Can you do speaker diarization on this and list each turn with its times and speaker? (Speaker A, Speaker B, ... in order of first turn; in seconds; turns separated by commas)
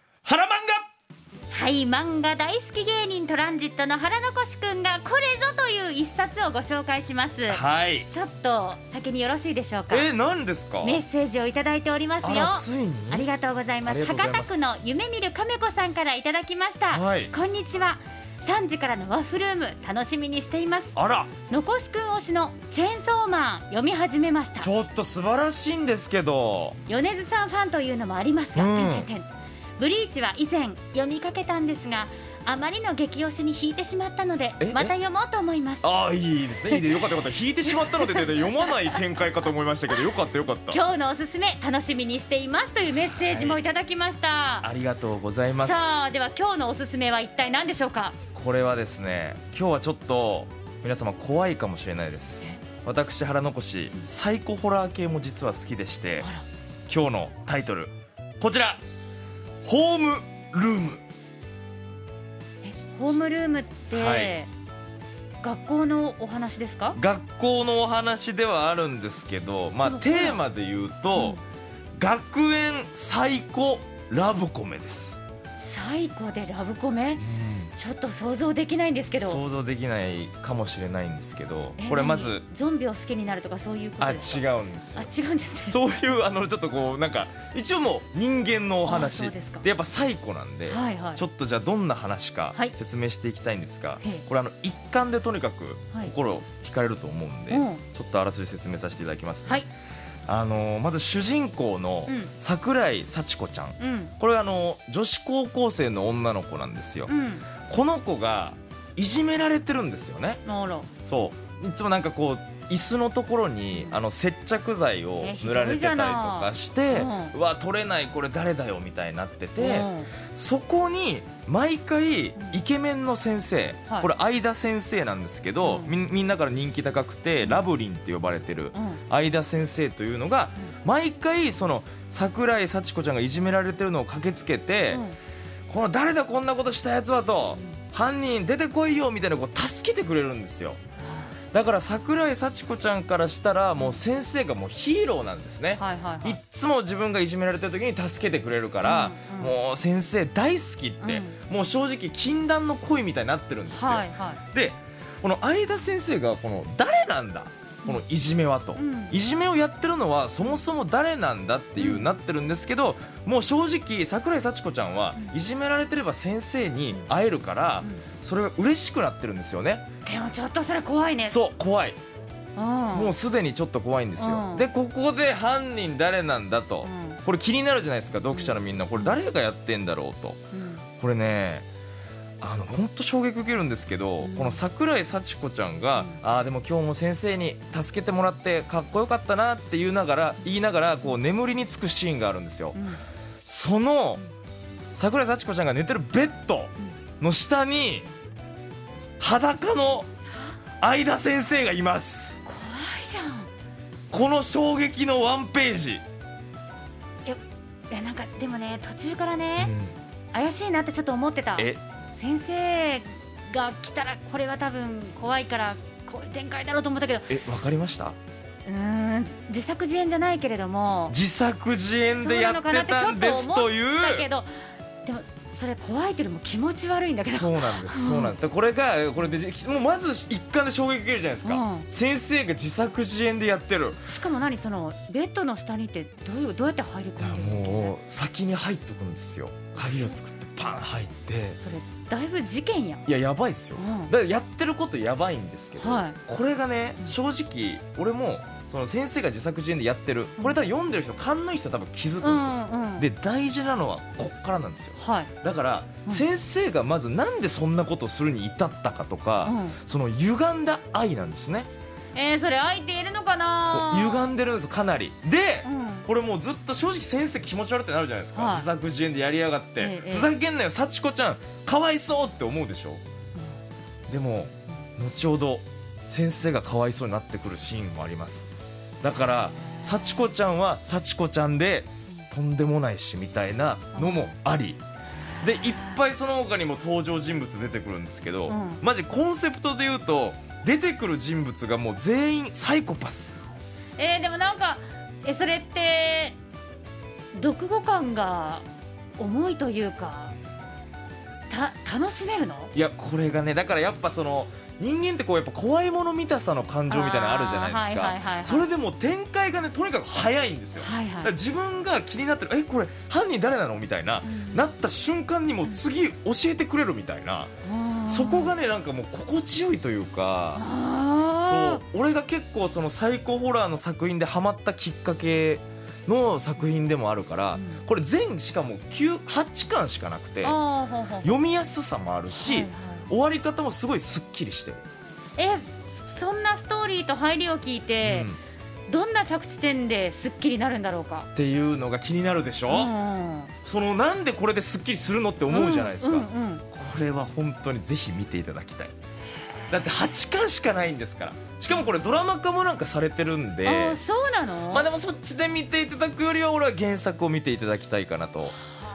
Speaker A: 0.2-0.8, Speaker B: 1.5-10.1, Speaker A: 7.5-8.1, Speaker A: 9.9-11.0, Speaker B: 10.8-20.9, Speaker A: 12.2-13.3, Speaker A: 13.8-14.5, Speaker A: 16.9-17.3, Speaker A: 20.9-21.3, Speaker B: 21.5-24.7, Speaker A: 24.6-26.8, Speaker B: 26.9-35.8, Speaker A: 28.5-29.1, Speaker A: 34.6-34.9, Speaker A: 35.8-40.8, Speaker B: 36.7-37.0, Speaker B: 37.8-38.7, Speaker B: 40.7-44.7, Speaker A: 43.2-43.6, Speaker A: 44.6-46.0, Speaker B: 45.5-48.2, Speaker A: 48.3-56.3, Speaker A: 56.9-58.8, Speaker A: 59.6-61.0, Speaker B: 62.6-64.5, Speaker A: 63.9-64.3, Speaker B: 65.4-67.0, Speaker A: 67.0-71.4, Speaker B: 69.8-70.4, Speaker A: 72.0-75.2, Speaker B: 75.6-77.2, Speaker A: 77.2-77.7, Speaker B: 77.8-79.4, Speaker A: 79.1-82.4, Speaker B: 81.8-85.8, Speaker A: 84.0-85.1, Speaker A: 85.7-99.6, Speaker B: 88.8-89.7, Speaker B: 90.7-91.2, Speaker B: 97.5-97.8, Speaker A: 100.3-110.4, Speaker B: 103.8-104.1, Speaker B: 107.1-107.5, Speaker B: 110.4-110.9, Speaker A: 111.0-135.0, Speaker B: 113.7-114.0, Speaker B: 115.1-117.3, Speaker B: 119.6-120.1, Speaker B: 125.6-126.0, Speaker B: 128.7-129.0, Speaker B: 134.9-135.2, Speaker A: 135.7-140.8, Speaker B: 141.0-141.3, Speaker A: 141.5-169.8, Speaker B: 145.8-146.4, Speaker B: 148.8-149.5, Speaker B: 151.0-151.4, Speaker B: 153.7-154.4, Speaker B: 158.8-159.3, Speaker B: 161.8-162.1, Speaker B: 170.0-171.4, Speaker A: 171.3-172.0, Speaker B: 172.6-173.1, Speaker A: 172.9-180.4, Speaker B: 174.2-174.7, Speaker B: 176.8-177.2, Speaker B: 178.3-179.2, Speaker B: 180.5-180.8, Speaker A: 181.0-181.7, Speaker A: 182.4-192.8, Speaker B: 184.2-184.6, Speaker B: 192.7-193.0, Speaker A: 193.4-194.2, Speaker A: 194.9-198.1, Speaker A: 199.2-200.1, Speaker A: 200.8-202.4, Speaker B: 202.4-203.5, Speaker A: 204.1-206.0, Speaker B: 207.2-209.7, Speaker A: 209.6-209.9, Speaker B: 210.3-217.3, Speaker A: 217.3-218.2, Speaker B: 218.6-221.2, Speaker A: 221.1-224.2, Speaker B: 222.2-224.5, Speaker B: 225.0-228.4, Speaker A: 227.2-234.1, Speaker B: 231.4-231.9, Speaker B: 234.1-237.9, Speaker A: 237.2-241.6, Speaker B: 239.8-240.2, Speaker B: 241.6-243.1, Speaker A: 243.1-261.7, Speaker B: 243.8-244.1, Speaker B: 245.8-246.2, Speaker B: 252.2-253.1, Speaker B: 255.0-255.3, Speaker B: 259.4-259.8, Speaker B: 262.1-264.3, Speaker A: 263.7-273.0, Speaker B: 265.6-266.1, Speaker B: 268.3-268.7, Speaker B: 269.8-270.3, Speaker A: 274.1-278.5, Speaker A: 279.0-284.8, Speaker B: 279.6-280.2, Speaker B: 283.9-284.3, Speaker B: 285.4-286.0, Speaker A: 285.4-293.4, Speaker B: 288.5-288.8, Speaker B: 294.0-296.4, Speaker B: 297.3-298.6, Speaker B: 299.2-300.3, Speaker B: 301.5-302.7, Speaker A: 302.7-317.5, Speaker B: 306.9-308.7, Speaker B: 310.8-311.3, Speaker B: 314.2-314.6, Speaker B: 317.6-318.6, Speaker A: 318.1-320.6, Speaker B: 320.5-321.8, Speaker A: 321.4-330.6, Speaker B: 327.5-327.8, Speaker B: 330.4-331.4, Speaker A: 331.2-334.8, Speaker B: 332.3-333.1, Speaker B: 335.4-338.3, Speaker A: 338.0-338.4, Speaker B: 338.9-341.3, Speaker A: 341.3-342.9, Speaker B: 342.7-343.5, Speaker A: 343.6-348.9, Speaker B: 345.5-346.6, Speaker A: 349.7-354.0, Speaker B: 353.6-354.9, Speaker A: 354.7-358.6